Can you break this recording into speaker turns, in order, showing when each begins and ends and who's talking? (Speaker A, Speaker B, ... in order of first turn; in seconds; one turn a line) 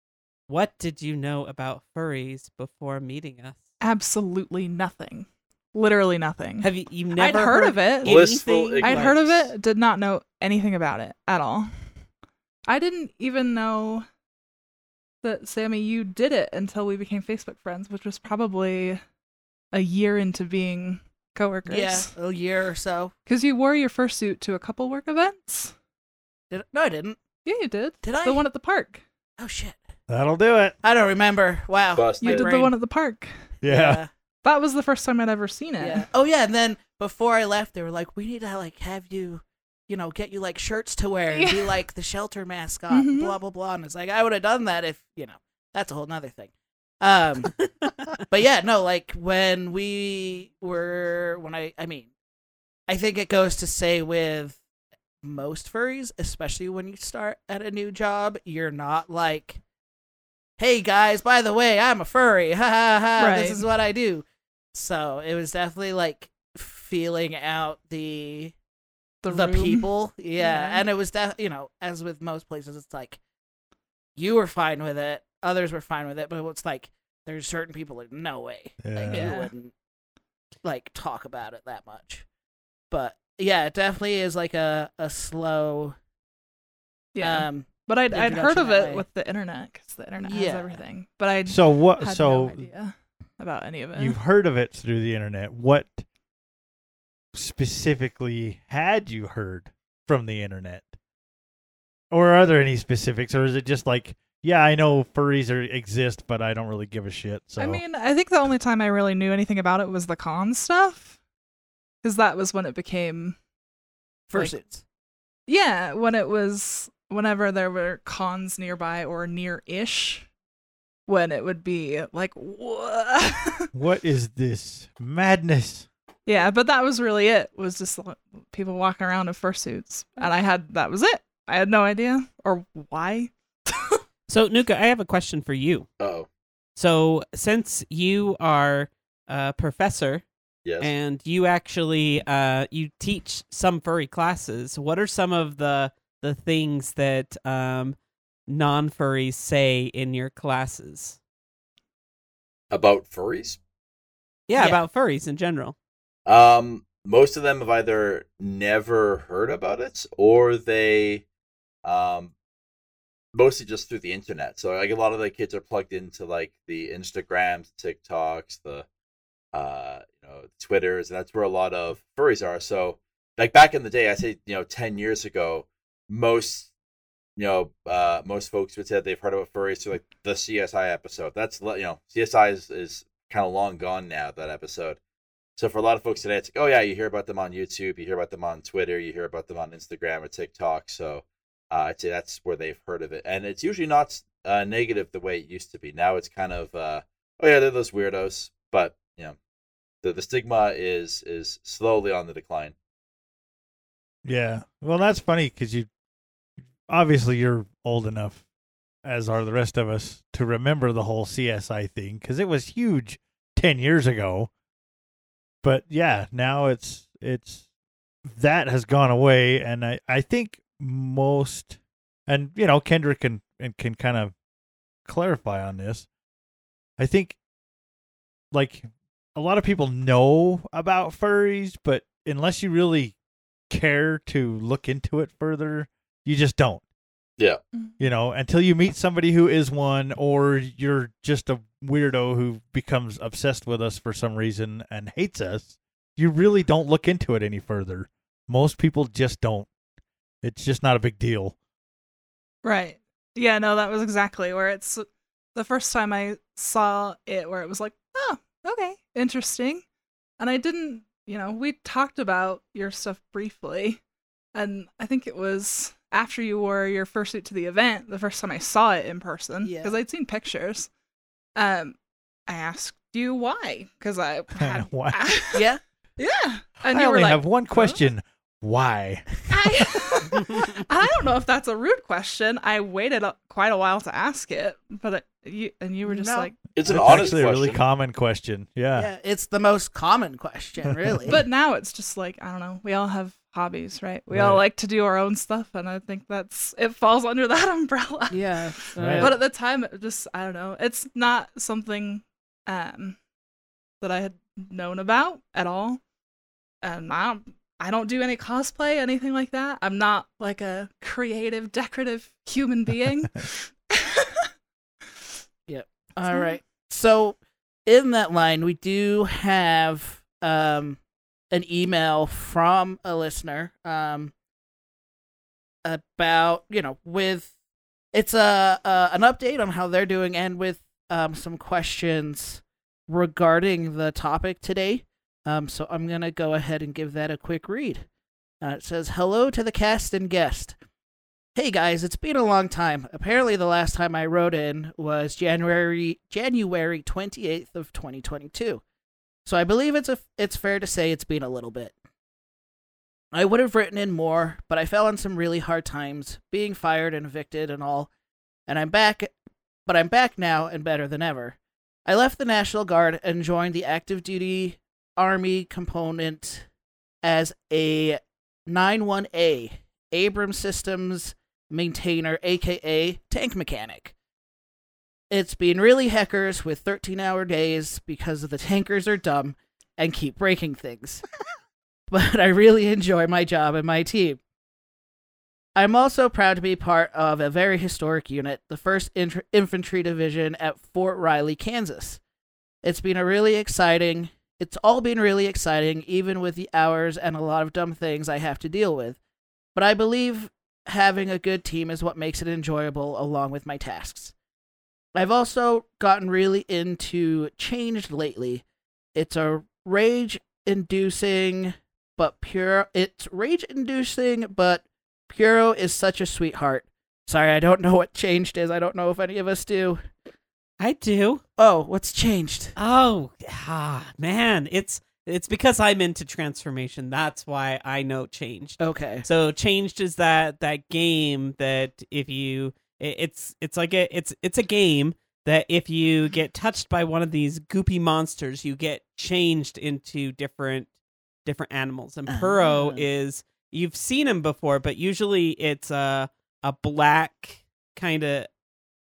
Speaker A: 0.5-3.6
Speaker B: 3.8-11.7
Speaker A: 6.6-9.2
Speaker C: 8.0-9.5
Speaker B: 12.7-14.1
Speaker B: 15.2-19.0
Speaker B: 19.7-22.1
Speaker D: 21.7-23.1
Speaker B: 23.3-25.8
Speaker D: 26.5-27.2
Speaker B: 27.4-29.0
Speaker D: 28.0-28.4
Speaker D: 29.4-29.8
Speaker E: 30.1-30.8
Speaker D: 30.8-32.7
Speaker C: 31.9-32.5
Speaker B: 32.2-33.4
Speaker E: 33.6-34.0
Speaker D: 33.7-34.1
Speaker B: 34.4-36.1
Speaker D: 35.8-52.1
Speaker B: 41.3-41.8
Speaker B: 42.9-43.4
Speaker D: 52.9-54.6
Speaker D: 55.2-59.6
Speaker D: 60.6-68.5
Speaker B: 63.2-63.6
Speaker B: 69.2-70.8
Speaker D: 69.3-73.2
Speaker D: 74.2-79.7
Speaker E: 78.8-79.3
Speaker B: 79.0-79.5
Speaker D: 80.6-82.2
Speaker D: 82.9-86.0
Speaker B: 87.2-94.2
Speaker D: 87.2-89.0
Speaker D: 90.2-90.8
Speaker E: 91.5-92.7
Speaker E: 94.0-96.0
Speaker E: 97.3-101.0
Speaker E: 102.1-107.8
Speaker B: 107.6-111.2
Speaker B: 112.0-113.4
Speaker D: 114.3-114.8
Speaker B: 115.5-120.3
Speaker B: 121.1-123.7
Speaker E: 123.7-125.9
Speaker B: 126.3-134.0
Speaker A: 134.3-135.9
Speaker C: 136.0-136.3
Speaker A: 136.8-140.2
Speaker C: 140.7-140.9
Speaker A: 140.8-151.2
Speaker C: 152.7-153.6
Speaker A: 154.5-155.8
Speaker C: 156.3-161.2
Speaker C: 161.8-162.3
Speaker C: 163.3-168.9
Speaker C: 169.5-176.7
Speaker C: 177.4-185.0
Speaker C: 185.6-199.4
Speaker C: 200.0-202.8
Speaker E: 204.2-205.9
Speaker E: 206.9-208.4
Speaker E: 209.0-214.5
Speaker E: 215.6-217.6
Speaker E: 218.3-224.3
Speaker E: 225.1-226.1
Speaker E: 227.0-227.4
Speaker E: 228.5-233.2
Speaker E: 233.7-236.8
Speaker E: 238.0-249.7
Speaker E: 250.4-251.6
Speaker B: 252.6-259.8
Speaker B: 260.4-264.0
Speaker B: 264.5-270.9
Speaker D: 269.6-270.0
Speaker B: 271.6-272.0
Speaker B: 272.5-275.7
Speaker E: 274.6-275.2
Speaker D: 275.5-275.8
Speaker B: 276.2-278.0
Speaker E: 276.9-279.3
Speaker B: 279.5-286.6
Speaker D: 286.1-286.5
Speaker C: 286.7-287.8
Speaker E: 286.8-289.1
Speaker D: 288.9-291.4
Speaker E: 290.8-291.3
Speaker B: 291.3-303.2
Speaker E: 294.3-294.6
Speaker D: 298.3-299.4
Speaker E: 299.0-299.3
Speaker B: 304.0-306.0
Speaker B: 306.8-314.4
Speaker D: 315.7-321.0
Speaker B: 316.3-316.6
Speaker D: 321.5-324.3
Speaker D: 325.9-327.5
Speaker D: 328.1-338.1
Speaker D: 338.6-340.8
Speaker D: 341.6-348.8
Speaker D: 349.4-351.9
Speaker D: 353.3-358.1
Speaker D: 358.7-359.3
Speaker D: 359.9-366.7
Speaker D: 367.2-374.1
Speaker D: 375.3-381.2
Speaker D: 382.1-384.4
Speaker D: 385.8-392.2
Speaker D: 392.8-399.2
Speaker D: 399.8-404.3
Speaker D: 405.1-408.6
Speaker D: 409.1-420.0
Speaker A: 420.8-421.4
Speaker D: 421.6-422.7
Speaker A: 422.8-440.9
Speaker D: 428.8-429.3
Speaker A: 441.4-448.5
Speaker D: 442.3-443.1